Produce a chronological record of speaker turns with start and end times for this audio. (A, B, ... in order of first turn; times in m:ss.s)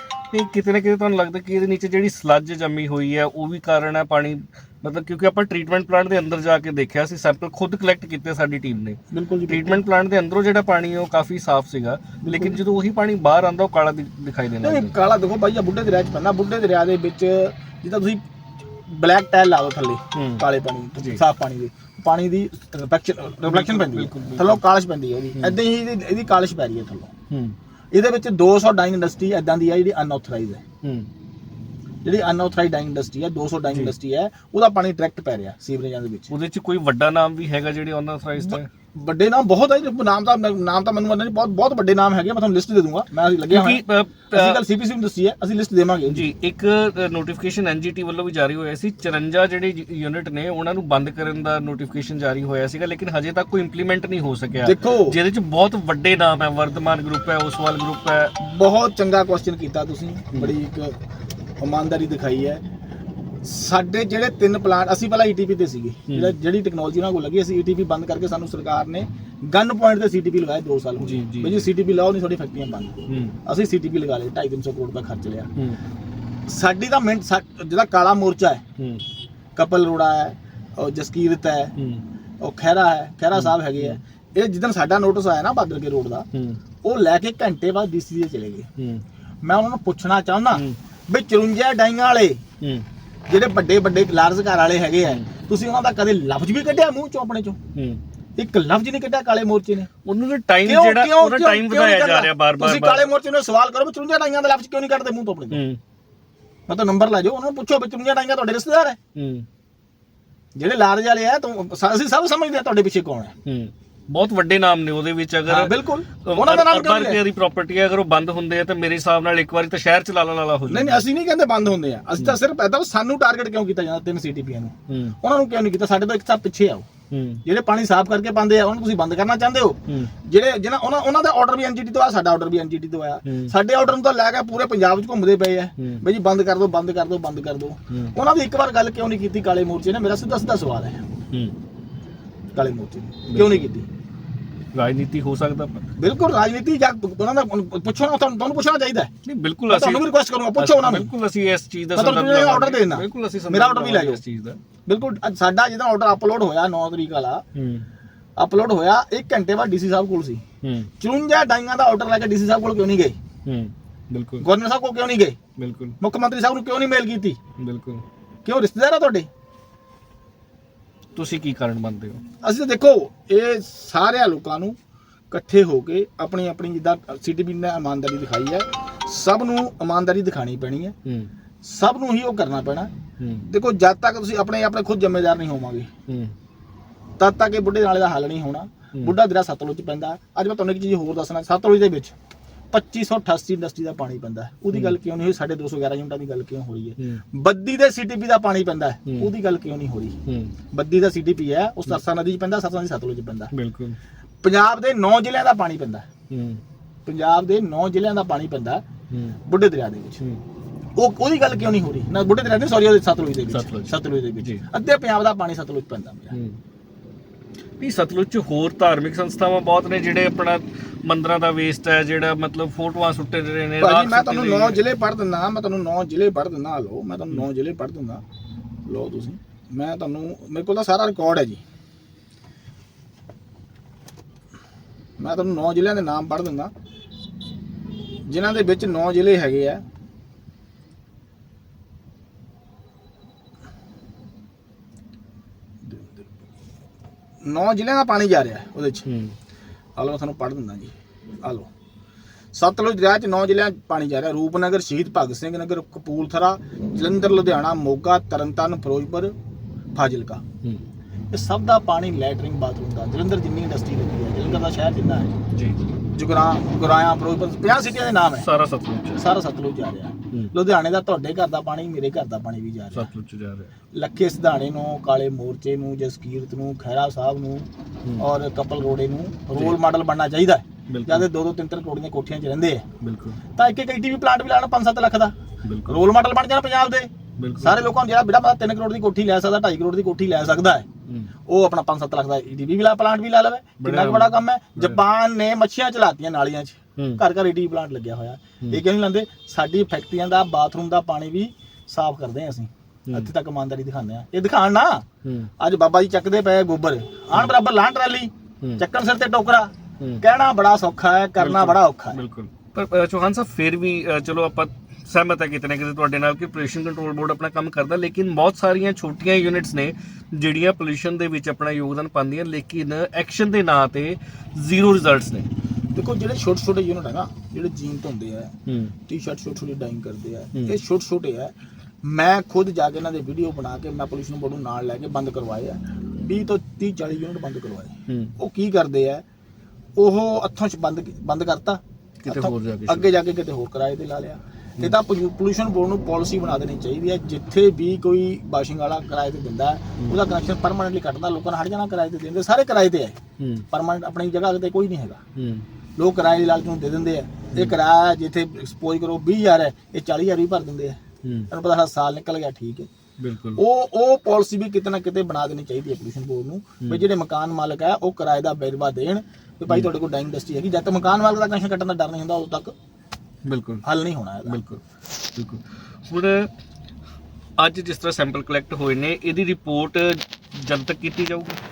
0:00.3-0:14.9 A
0:09.1-0:09.8 B
0:12.2-0:12.6 B
0:14.6-0:18.2 B
0:18.9-0:27.1 B
0:20.1-0:20.4 A
0:23.4-0:24.6 A
0:27.3-0:27.6 A
0:27.9-0:30.6 B
0:30.8-0:31.1 A
0:32.0-0:36.3 B
0:36.3-0:38.7 A
0:38.4-0:46.2 B
0:43.5-0:44.6 A
0:46.1-0:58.3 A
0:54.6-0:55.2 B
0:58.4-1:00.9 B
1:01.6-1:02.6 B
1:03.4-1:15.5 B
1:06.1-1:06.3 A
1:11.0-1:11.7 A
1:13.1-1:13.4 A
1:16.5-1:18.6 B
1:18.8-1:19.0 A
1:19.6-1:21.7 B
1:21.8-1:22.0 A
1:22.4-1:26.3 B
1:23.3-1:24.0 A
1:26.3-1:26.6 A
1:26.8-1:28.7 B
1:28.8-1:29.0 A
1:29.4-1:32.4 B
1:32.6-1:32.8 A
1:33.3-1:37.6 B
1:37.7-1:38.0 A
1:38.4-1:39.9 B
1:40.0-1:43.1 A
1:40.6-1:45.6 B
1:45.5-1:45.8 A
1:46.7-1:49.0 B
1:49.2-1:49.4 A
1:50.6-1:53.3 B
1:53.4-1:55.7 A
1:55.4-1:57.2 B
1:56.2-2:01.0 A
2:00.7-2:06.8 B
2:04.9-2:05.2 A
2:07.1-2:07.4 A
2:07.4-2:21.0 B
2:13.2-2:13.5 A
2:15.8-2:16.0 A
2:17.9-2:18.2 A
2:22.5-2:23.9 B
2:23.3-2:23.6 A
2:24.7-2:25.8 A
2:26.0-2:29.1 B
2:29.2-2:30.0 A
2:29.7-2:31.1 B
2:30.6-2:34.6 A
2:31.9-2:34.2 B
2:34.8-2:37.4 B
2:37.5-2:37.9 A
2:38.4-2:40.4 B
2:40.6-2:40.9 A
2:41.0-2:43.2 B
2:43.4-2:44.4 A
2:44.4-2:45.4 B
2:45.6-2:46.0 A
2:46.0-2:47.4 B
2:47.6-2:48.0 A
2:48.4-2:49.3 B
2:51.2-2:52.2 A
2:52.4-2:54.8 B
2:55.3-3:00.9 B
3:01.6-3:02.9 B
3:03.2-3:03.4 A
3:03.4-3:05.9 B
3:06.1-3:06.3 A
3:07.2-3:12.1 B
3:12.7-3:20.2 B
3:20.3-3:20.5 A
3:20.7-3:23.5 B
3:23.5-3:24.0 A
3:24.4-3:26.0 B
3:26.3-3:26.6 A
3:27.0-3:28.8 B
3:29.1-3:29.4 A
3:29.5-3:30.2 B
3:31.0-3:36.3 B
3:33.5-3:34.6 A
3:36.3-3:36.6 A
3:37.8-3:44.8 A
3:43.8-3:48.2 B
3:48.8-3:51.6 B
3:55.2-3:56.7 B
3:58.2-3:59.8 B
4:05.8-4:06.3 B
4:07.4-4:09.1 B
4:09.0-4:09.3 A
4:10.0-4:11.7 B
4:12.5-4:19.3 B
4:19.9-4:20.4 B
4:21.3-4:25.3 B
4:25.5-4:25.9 A
4:26.1-4:28.5 B
4:28.4-4:29.2 A
4:29.1-4:33.1 B
4:32.9-4:33.7 A
4:33.9-4:37.7 B
4:38.2-4:42.8 B
4:40.9-4:41.3 A
4:43.0-4:43.4 A
4:43.6-4:45.3 B
4:45.6-4:46.0 A
4:45.9-4:47.1 B
4:47.4-4:47.8 A
4:47.6-4:50.8 B
4:51.5-5:05.0 B
4:53.8-4:55.0 A
5:05.2-5:05.5 A
5:05.6-5:12.2 B
5:11.4-5:25.5 A
5:25.9-5:28.5 B
5:28.7-5:28.9 A
5:29.1-5:39.2 B
5:38.1-5:38.4 A
5:40.0-5:53.2 B
5:42.2-5:43.1 A
5:53.4-5:53.6 A
5:53.7-5:55.2 B
5:55.4-5:55.6 A
5:56.0-6:01.0 B
5:57.5-5:57.8 A
6:01.2-6:01.5 A
6:01.5-6:02.9 B
6:03.2-6:03.6 A
6:03.6-6:12.7 B
6:13.4-6:13.8 A
6:13.8-6:14.6 B
6:14.5-6:16.5 A
6:17.6-6:21.6 A